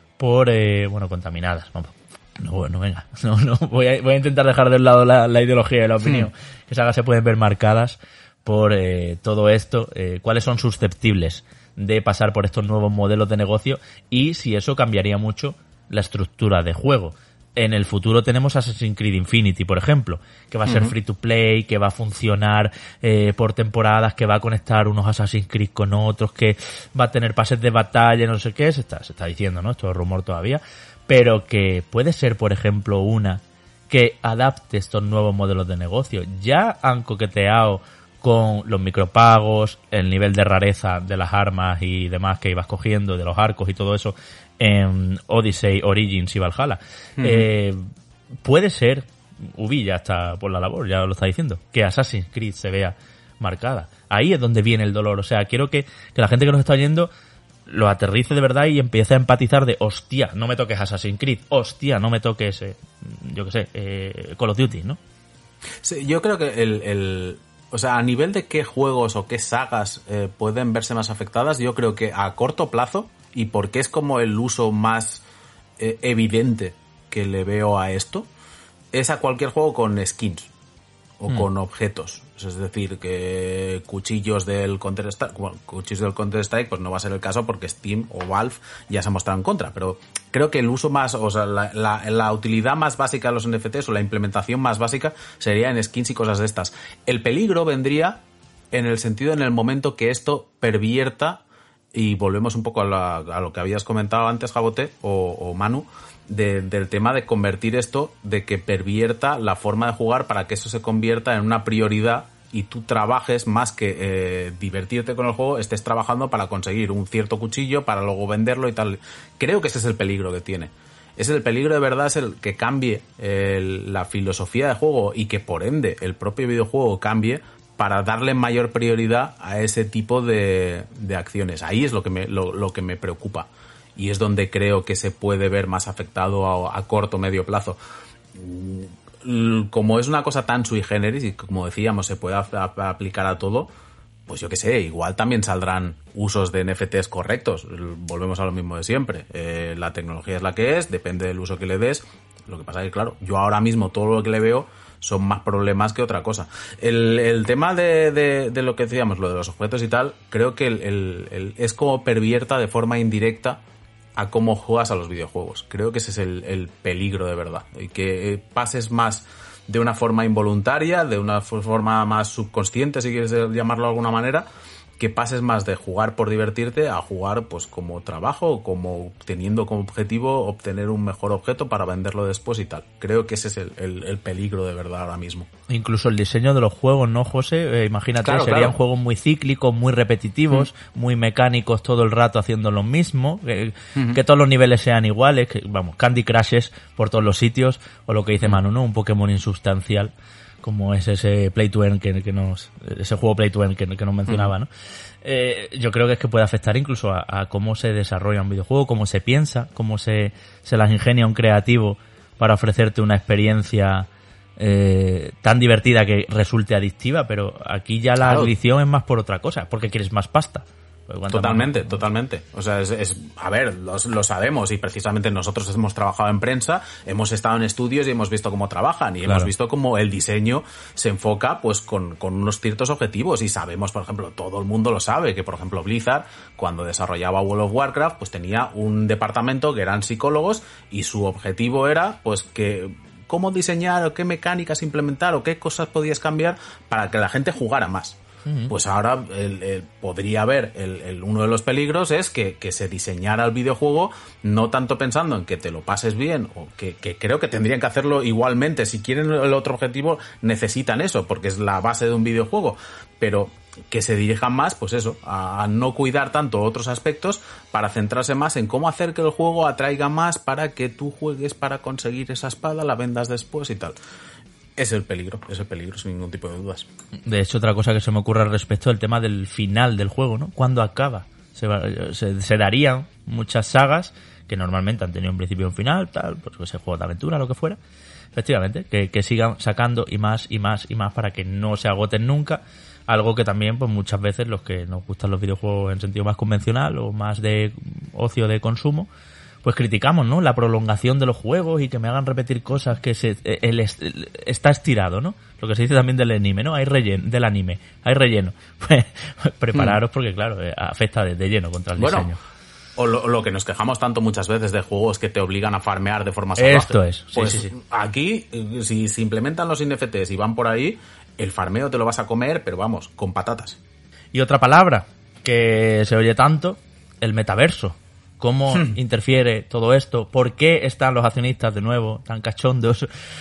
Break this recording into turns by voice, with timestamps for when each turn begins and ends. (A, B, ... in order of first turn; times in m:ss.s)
0:00.2-0:47.8 A
0:20.6-0:20.9 B
0:47.2-0:47.5 B
0:48.4-0:57.1 A
0:57.7-1:05.0 A
1:05.8-1:15.2 B
1:15.8-1:18.3 B
1:18.9-1:20.5 B
1:21.2-1:38.2 B
1:38.7-1:41.4 B
1:41.9-2:17.8 B
2:18.3-2:23.7 B
2:24.3-2:43.6 B
2:44.2-2:54.5 B
2:55.0-3:05.5 B
3:05.7-3:20.1 A
3:08.2-3:08.8 B
3:20.6-3:24.7 A
3:25.2-3:42.0 A
3:38.2-3:38.5 B
3:41.3-4:34.0 B
3:49.2-3:49.5 A
4:08.4-4:08.7 A
4:34.8-4:36.8 B
4:37.3-4:47.8 A
4:48.3-4:59.1 A
4:59.6-5:12.4 A
5:12.0-5:12.3 B
5:13.0-5:23.8 B
5:16.6-5:17.7 A
5:24.3-5:33.1 A